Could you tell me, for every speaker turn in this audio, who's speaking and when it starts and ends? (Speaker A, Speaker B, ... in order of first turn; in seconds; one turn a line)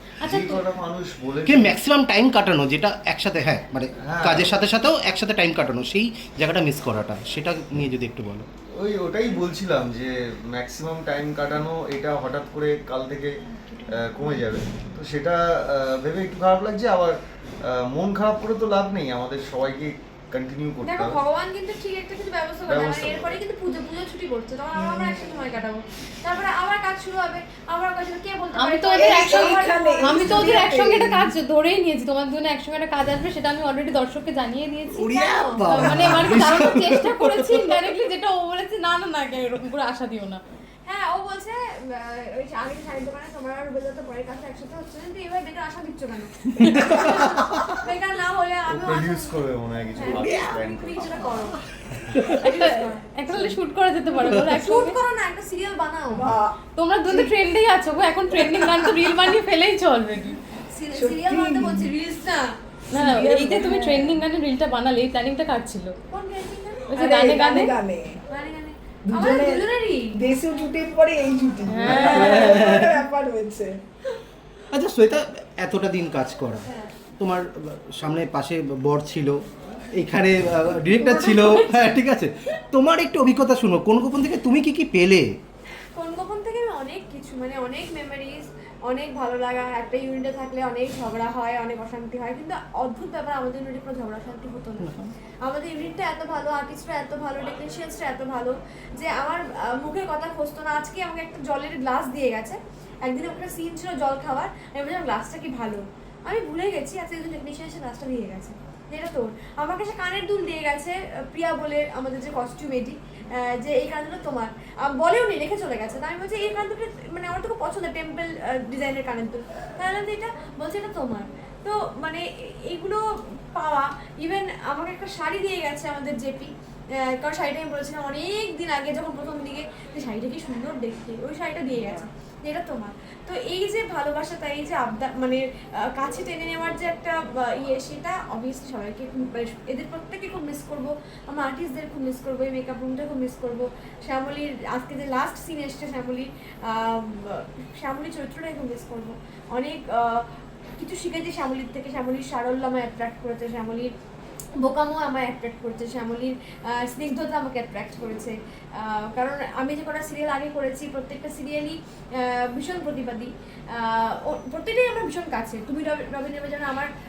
Speaker A: 0.2-1.8
Speaker B: 0.2-0.6
Speaker C: 1.4-8.5
Speaker A: 4.0-4.6
Speaker A: 8.8-13.4
Speaker A: 13.9-21.2
Speaker D: 20.8-30.5
Speaker A: 22.7-23.4
Speaker E: 24.8-25.3
Speaker B: 28.5-35.1
Speaker E: 28.9-31.3
Speaker C: 34.9-37.9
Speaker D: 35.1-36.3
Speaker B: 35.7-40.4
Speaker D: 40.9-49.4
Speaker C: 46.6-47.8
Speaker B: 46.6-46.9
Speaker A: 48.7-51.1
Speaker D: 50.0-51.6
Speaker E: 50.1-50.6
Speaker C: 52.1-52.4
Speaker D: 52.3-53.0
Speaker B: 52.4-55.0
Speaker D: 54.5-56.3
Speaker E: 56.1-57.3
Speaker B: 56.8-60.4
Speaker D: 60.7-62.5
Speaker E: 60.9-61.9
Speaker B: 62.9-66.0
Speaker E: 62.9-64.2
Speaker D: 66.1-67.0
Speaker B: 66.9-67.7
Speaker E: 67.0-68.2
Speaker D: 68.3-70.2
Speaker E: 69.1-73.8
Speaker B: 71.7-72.9
Speaker C: 72.0-73.0
Speaker C: 74.7-76.7
Speaker D: 76.7-76.9
Speaker C: 77.2-79.4
Speaker C: 79.9-85.3
Speaker B: 81.0-81.9
Speaker D: 86.0-150.3
Speaker C: 94.8-95.1
Speaker D: 150.8-153.9
Speaker D: 154.6-166.9